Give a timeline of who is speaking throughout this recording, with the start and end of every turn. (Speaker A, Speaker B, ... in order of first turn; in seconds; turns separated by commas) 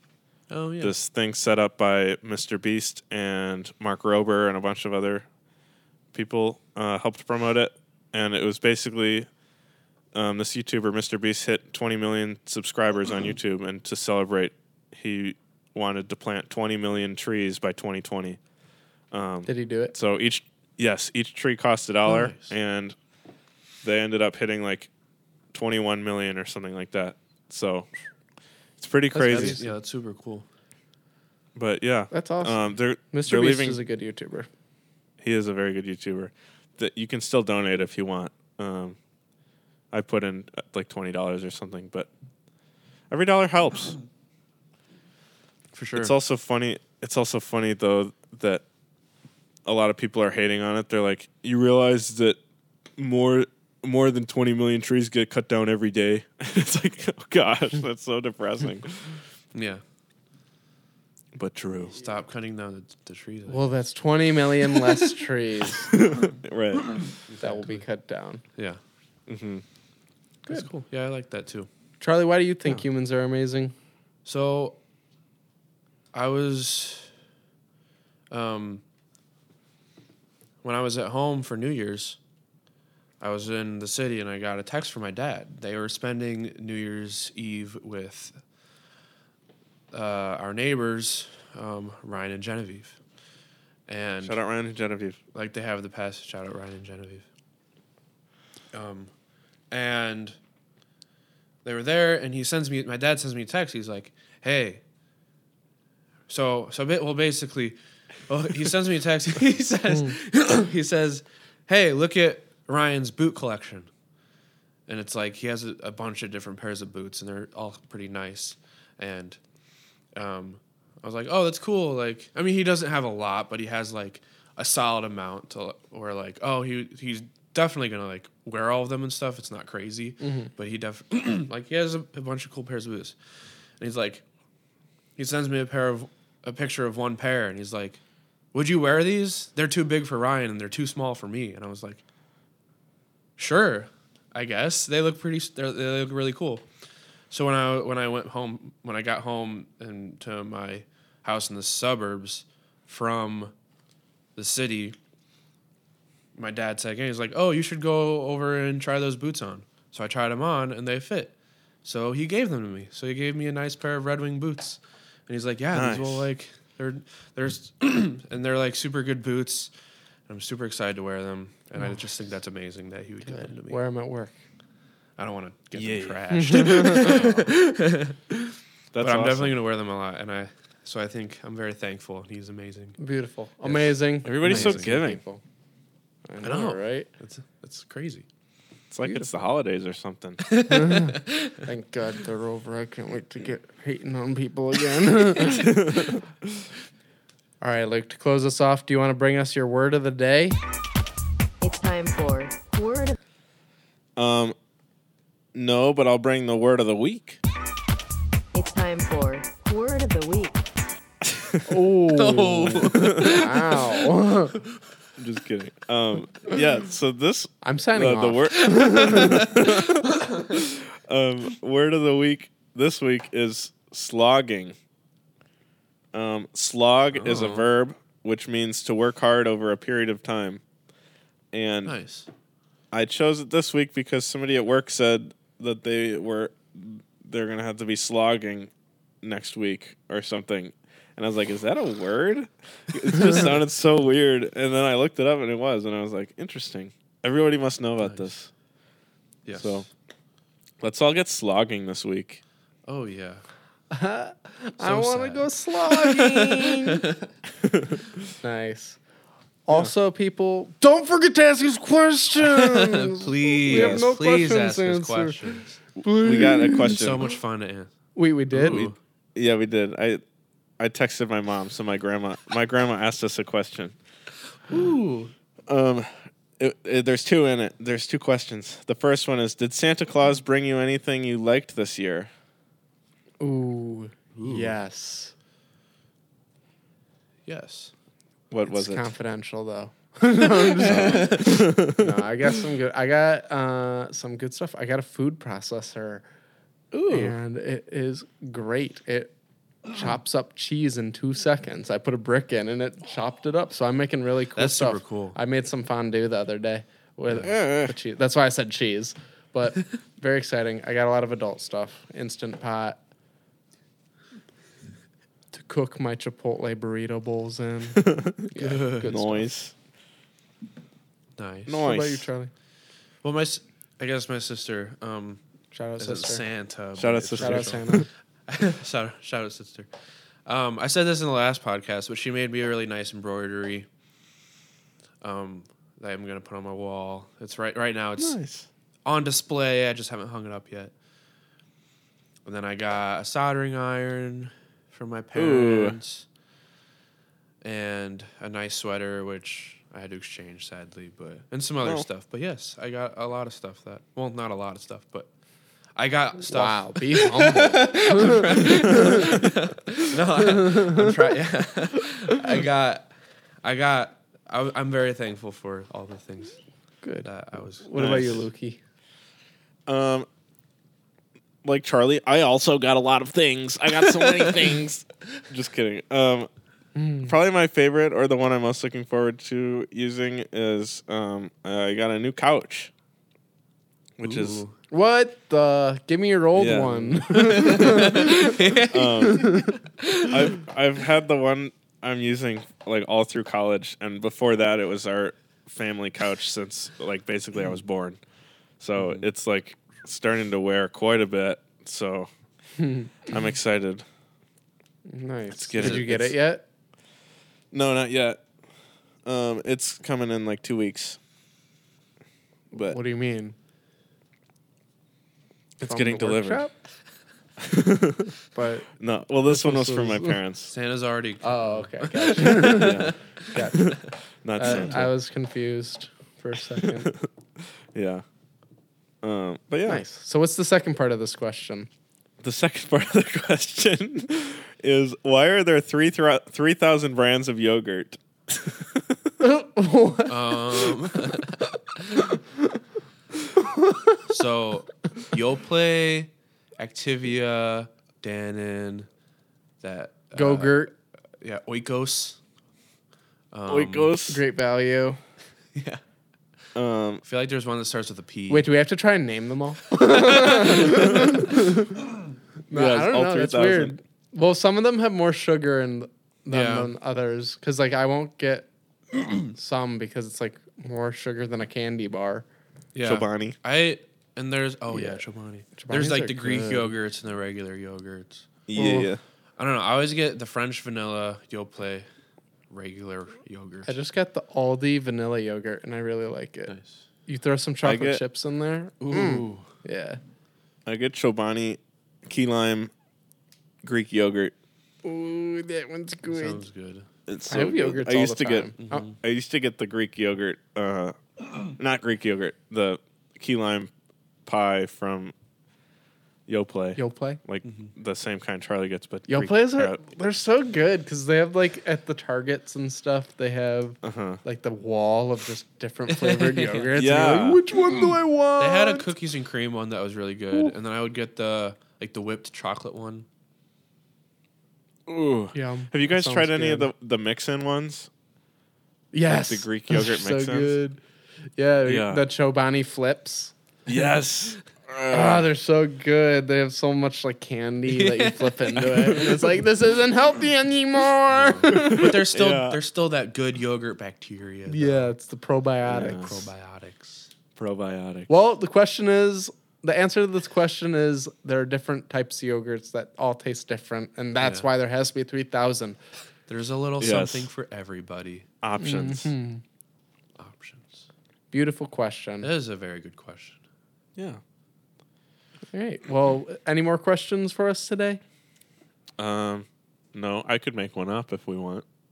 Speaker A: 0.5-0.9, Speaker B: 0.8-5.3, Speaker B: 6.1-9.3, Speaker B: 10.1-18.4, Speaker B: 19.1-23.0, Speaker C: 19.5-19.9, Speaker A: 22.1-22.5, Speaker B: 23.8-24.9, Speaker B: 25.5-27.9, Speaker B: 28.8-29.6, Speaker A: 29.1-30.5, Speaker C: 29.2-29.7, Speaker B: 31.6-33.8, Speaker C: 32.1-34.5, Speaker B: 35.2-39.0, Speaker B: 39.9-42.1, Speaker B: 43.1-44.0, Speaker A: 45.7-46.1, Speaker B: 46.0-48.6, Speaker B: 49.6-52.4, Speaker B: 53.0-59.2, Speaker A: 59.5-59.8, Speaker B: 61.4-62.0, Speaker A: 61.9-63.7, Speaker C: 63.5-66.0, Speaker B: 65.9-67.0, Speaker A: 67.3-67.8, Speaker C: 67.4-68.4, Speaker B: 69.3-69.6, Speaker A: 70.5-71.7, Speaker C: 72.0-73.7, Speaker A: 74.2-74.8, Speaker A: 76.1-77.1, Speaker A: 78.3-78.8, Speaker A: 80.6-82.2, Speaker A: 83.2-88.4, Speaker A: 89.9-93.0, Speaker A: 93.9-94.4, Speaker B: 94.2-95.2, Speaker A: 95.3-97.2, Speaker A: 98.7-99.1, Speaker A: 99.7-100.4, Speaker A: 101.6-104.8, Speaker A: 106.3-113.9, Speaker C: 109.9-110.2, Speaker A: 114.9-119.4, Speaker A: 120.2-133.2, Speaker C: 130.2-130.5, Speaker A: 133.8-134.2, Speaker A: 135.2-138.0, Speaker A: 138.5-142.0, Speaker A: 143.4-146.7, Speaker A: 147.3-153.5, Speaker A: 154.4-155.0, Speaker A: 156.4-169.7, Speaker B: 165.7-166.3, Speaker A: 170.3-173.8, Speaker C: 173.3-174.3, Speaker A: 175.2-183.0, Speaker B: 175.8-177.0, Speaker C: 176.3-177.4, Speaker B: 178.9-179.5, Speaker C: 183.0-185.4, Speaker B: 184.2-185.2, Speaker A: 184.4-184.9, Speaker C: 186.3-187.1, Speaker A: 186.4-188.3, Speaker B: 188.9-190.4, Speaker A: 190.4-191.7, Speaker C: 190.7-196.1, Speaker B: 195.6-196.2, Speaker C: 197.6-200.6, Speaker D: 201.6-203.2, Speaker B: 204.2-204.6, Speaker B: 205.5-207.4, Speaker D: 208.5-210.7, Speaker B: 211.2-211.8, Speaker C: 211.7-214.6, Speaker A: 212.1-214.1, Speaker B: 215.2-224.8, Speaker C: 217.6-219.9, Speaker A: 219.1-219.7, Speaker B: 226.1-230.6, Speaker A: 227.1-227.7, Speaker B: 231.5-231.9, Speaker A: 231.9-232.3, Speaker B: 232.9-238.7, Speaker B: 239.2-248.5, Speaker A: 248.0-248.3, Speaker A: 249.4-249.9, Speaker B: 249.6-249.9, Speaker B: 250.8-252.4, Speaker A: 252.9-253.4, Speaker C: 253.9-257.0, Speaker A: 254.8-257.3, Speaker C: 258.4-259.0, Speaker C: 259.7-267.1, Speaker A: 262.4-265.8, Speaker B: 263.7-264.1, Speaker B: 266.1-267.3, Speaker A: 266.9-267.9, Speaker C: 268.2-268.9, Speaker A: 268.5-269.0, Speaker B: 268.6-270.2, Speaker B: 270.8-273.9, Speaker A: 274.7-275.3, Speaker B: 275.7-282.3, Speaker C: 283.4-285.3, Speaker A: 284.4-284.8, Speaker A: 287.5-287.9, Speaker B: 288.5-289.1, Speaker C: 288.7-296.2, Speaker A: 290.8-291.7, Speaker B: 290.8-292.1, Speaker A: 296.9-297.3, Speaker C: 297.1-299.3, Speaker C: 299.9-313.0, Speaker A: 304.6-305.4, Speaker B: 307.4-307.9, Speaker C: 315.5-319.5, Speaker B: 318.0-318.5, Speaker A: 318.6-319.1, Speaker B: 319.0-319.7, Speaker A: 321.4-321.8, Speaker B: 321.7-322.3, Speaker C: 321.8-322.5, Speaker A: 323.2-325.4, Speaker C: 325.7-326.4, Speaker A: 326.0-329.9, Speaker B: 327.0-328.1, Speaker C: 327.4-328.1, Speaker A: 330.5-333.9, Speaker A: 335.2-338.4, Speaker B: 338.2-338.7, Speaker A: 339.1-340.9, Speaker A: 342.4-346.3, Speaker B: 345.4-346.0, Speaker A: 347.6-355.3, Speaker A: 356.0-363.1, Speaker C: 356.5-359.4, Speaker C: 360.4-361.1, Speaker A: 363.6-366.6, Speaker C: 367.0-368.8, Speaker A: 367.2-368.3, Speaker B: 368.0-368.5, Speaker B: 369.9-370.3, Speaker B: 371.6-376.5, Speaker A: 374.1-374.7, Speaker C: 377.0-377.4, Speaker B: 377.2-382.9, Speaker B: 384.2-384.6, Speaker A: 384.2-384.8, Speaker C: 384.9-388.6, Speaker B: 386.6-388.3, Speaker A: 387.3-390.4, Speaker B: 388.9-389.6, Speaker C: 389.3-389.7, Speaker B: 390.3-398.2, Speaker B: 398.8-402.3, Speaker A: 399.0-399.3, Speaker C: 402.8-403.1, Speaker B: 403.3-404.1, Speaker C: 405.1-406.6, Speaker B: 405.5-406.4, Speaker A: 405.8-406.1, Speaker B: 407.7-408.4, Speaker B: 409.2-411.2, Speaker B: 412.7-413.0, Speaker C: 412.8-413.6, Speaker B: 415.8-416.7, Speaker C: 415.8-416.7, Speaker B: 417.6-418.3, Speaker C: 418.5-420.4, Speaker B: 419.0-420.7, Speaker A: 420.7-424.0, Speaker C: 421.4-427.1, Speaker B: 422.6-425.1, Speaker A: 424.6-425.0, Speaker B: 426.8-427.2, Speaker B: 427.9-428.2, Speaker B: 429.2-430.0, Speaker C: 429.9-431.9, Speaker B: 432.4-439.3, Speaker C: 439.4-441.0, Speaker A: 440.3-442.3, Speaker A: 444.3-449.1, Speaker A: 449.8-450.8, Speaker C: 450.3-450.9, Speaker A: 451.4-452.4, Speaker A: 453.5-454.1, Speaker B: 453.7-454.4, Speaker C: 454.3-455.2, Speaker A: 455.7-456.0, Speaker B: 456.8-457.2, Speaker A: 457.2-458.7, Speaker C: 458.5-462.1, Speaker A: 460.0-461.2, Speaker C: 462.7-468.7, Speaker B: 462.7-463.9, Speaker A: 466.5-466.9, Speaker C: 469.5-472.5, Speaker A: 472.9-478.5, Speaker B: 473.0-473.6, Speaker C: 474.9-475.2, Speaker C: 475.8-476.9, Speaker B: 478.7-479.2, Speaker C: 478.8-479.1, Speaker A: 479.6-482.1, Speaker A: 482.7-483.9, Speaker C: 483.9-486.7, Speaker A: 486.7-487.0, Speaker C: 487.3-490.2, Speaker B: 487.8-488.2, Speaker A: 489.0-489.7, Speaker B: 490.9-492.9, Speaker B: 493.8-494.5, Speaker C: 495.0-496.6, Speaker A: 496.3-497.1, Speaker B: 497.3-503.9, Speaker C: 497.5-498.8, Speaker A: 498.8-499.2, Speaker B: 504.5-505.4, Speaker B: 506.5-510.0, Speaker C: 507.0-507.4, Speaker A: 507.6-507.9, Speaker C: 509.3-519.0, Speaker B: 514.0-514.4, Speaker A: 516.1-516.9, Speaker B: 516.9-517.6, Speaker A: 518.6-523.3, Speaker B: 525.1-528.1, Speaker C: 525.5-526.9, Speaker C: 529.1-531.0, Speaker B: 529.3-530.8, Speaker C: 531.6-533.5, Speaker B: 531.9-532.2, Speaker B: 533.9-535.5, Speaker C: 535.1-542.2, Speaker A: 537.9-539.3, Speaker A: 541.3-545.1, Speaker B: 541.7-542.8, Speaker C: 544.7-546.5, Speaker B: 545.9-546.3, Speaker A: 545.9-547.3, Speaker B: 547.6-548.3, Speaker C: 548.3-556.0, Speaker A: 554.4-554.7, Speaker A: 556.5-558.5, Speaker B: 557.0-557.5, Speaker B: 558.6-559.3, Speaker C: 558.8-559.6, Speaker A: 560.4-561.1, Speaker C: 561.5-562.5, Speaker A: 562.4-563.6, Speaker C: 565.7-568.2, Speaker B: 569.2-571.8